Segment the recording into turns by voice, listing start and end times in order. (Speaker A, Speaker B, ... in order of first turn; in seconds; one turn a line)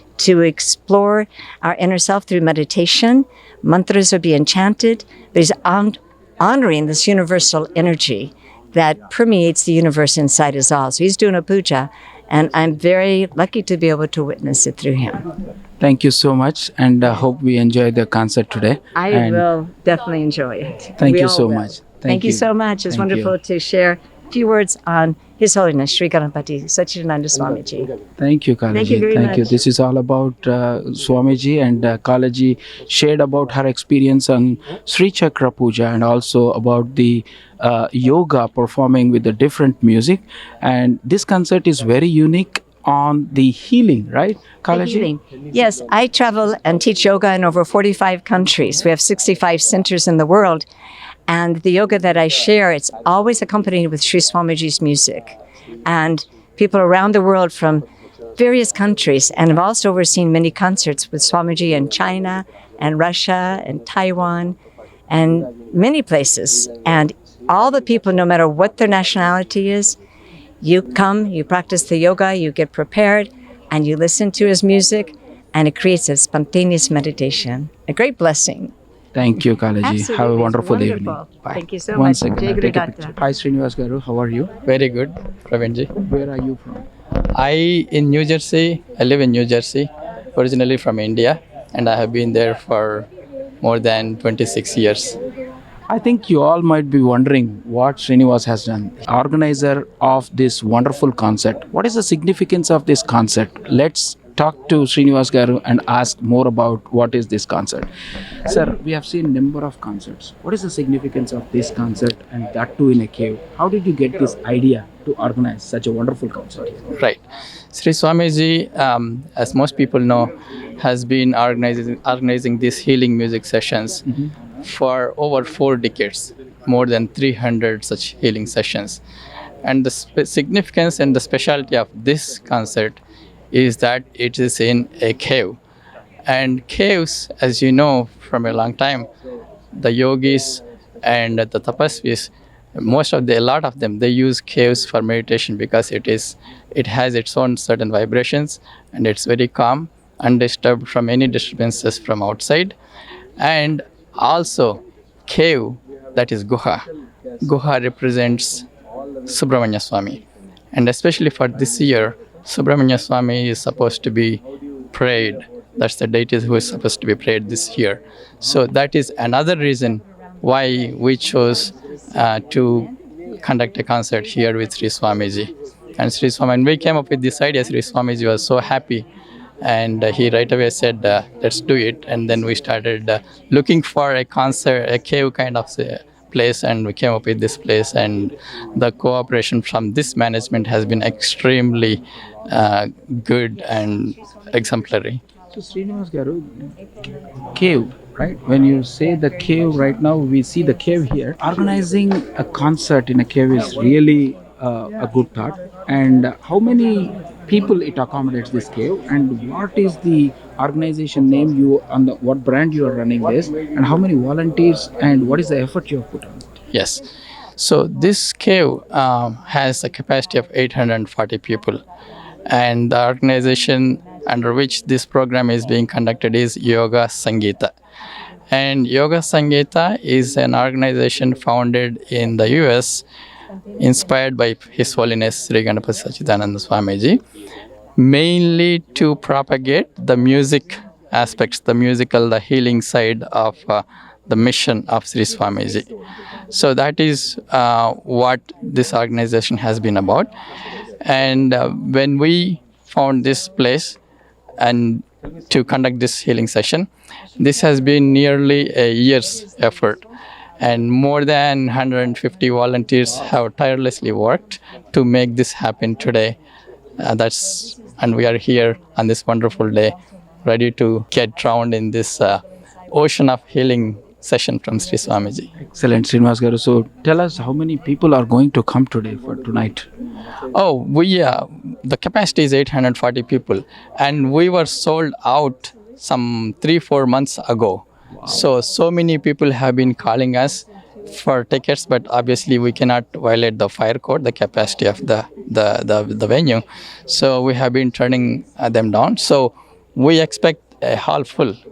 Speaker A: 0.2-15.3
Speaker B: 15.8-19.4
Speaker A: 18.9-27.9
Speaker B: 21.0-23.3
Speaker B: 28.2-45.1
Speaker A: 28.7-29.5
Speaker A: 44.7-50.7
Speaker A: 51.3-57.9
Speaker A: 58.4-64.6
Speaker A: 65.1-70.0
Speaker A: 70.6-78.7
Speaker B: 79.1-84.5
Speaker A: 79.8-83.2
Speaker C: 84.7-86.0
Speaker B: 86.0-86.8
Speaker C: 87.3-93.1
Speaker C: 93.6-95.2
Speaker B: 95.9-107.9
Speaker B: 108.5-116.9
Speaker C: 117.0-117.2
Speaker C: 117.7-124.0
Speaker C: 124.6-129.0
Speaker C: 129.6-133.0
Speaker C: 133.5-135.6
Speaker C: 136.3-139.1
Speaker C: 139.7-152.8
Speaker C: 153.4-156.8
Speaker C: 157.4-158.7
Speaker C: 159.3-179.1
Speaker C: 179.6-195.2
Speaker B: 195.5-196.7
Speaker B: 197.6-216.5
Speaker C: 216.7-217.1
Speaker C: 217.6-221.8
Speaker C: 222.5-227.7
Speaker C: 228.5-233.0
Speaker C: 233.8-237.2
Speaker C: 238.0-245.9
Speaker C: 246.5-250.3
Speaker C: 251.0-254.0
Speaker C: 254.6-260.1
Speaker C: 260.6-266.4
Speaker C: 267.0-275.5
Speaker B: 275.6-279.9
Speaker C: 280.5-301.6